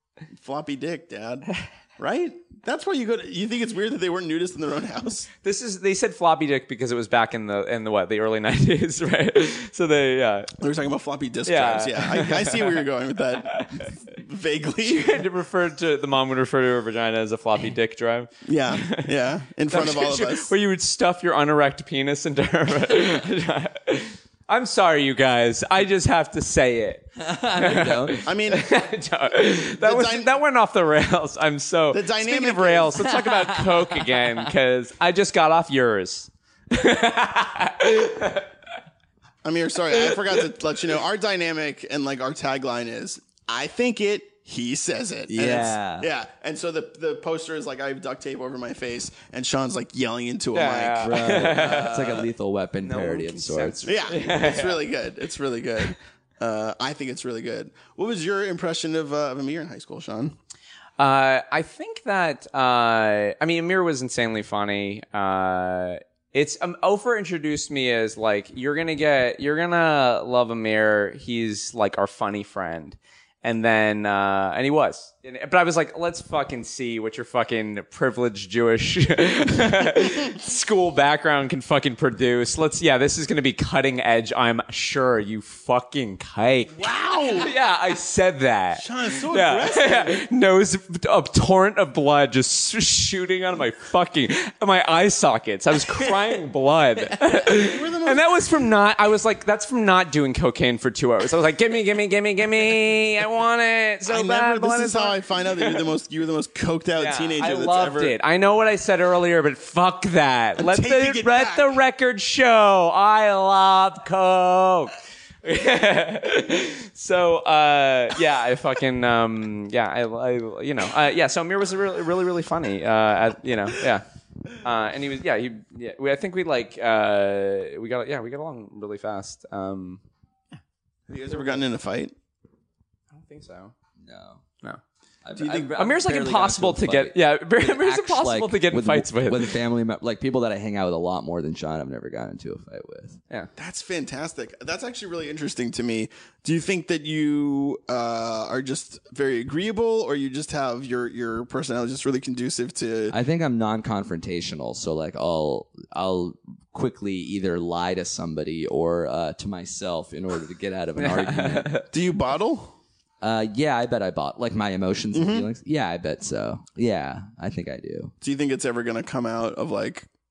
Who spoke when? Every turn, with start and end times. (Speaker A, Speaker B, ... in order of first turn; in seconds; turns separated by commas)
Speaker A: 0.3-5.3, Speaker B: 5.4-10.5, Speaker A: 10.6-15.2, Speaker B: 11.4-13.9, Speaker B: 14.8-19.1, Speaker A: 18.4-20.5, Speaker B: 19.7-38.5, Speaker C: 27.2-28.2, Speaker A: 28.2-28.8, Speaker A: 29.8-30.3, Speaker A: 31.9-33.2, Speaker C: 33.1-34.5, Speaker A: 39.4-52.2, Speaker B: 39.9-40.2, Speaker C: 45.3-46.1, Speaker B: 50.5-52.1, Speaker C: 51.0-54.0, Speaker B: 52.8-54.8, Speaker A: 53.9-60.3, Speaker B: 61.0-105.8, Speaker A: 86.7-87.5, Speaker A: 88.8-90.2, Speaker A: 97.4-98.3, Speaker A: 104.1-108.1, Speaker B: 107.0-124.0, Speaker A: 110.6-111.8, Speaker B: 124.6-130.0, Speaker A: 131.1-132.1, Speaker B: 131.3-131.6, Speaker B: 133.1-133.7, Speaker C: 134.0-134.4, Speaker C: 135.2-143.2, Speaker A: 135.4-135.7, Speaker B: 135.6-139.6, Speaker A: 143.6-153.2, Speaker C: 153.1-161.7, Speaker B: 161.0-161.9, Speaker A: 161.9-162.7, Speaker C: 163.2-168.1, Speaker A: 165.1-165.5, Speaker A: 168.2-170.1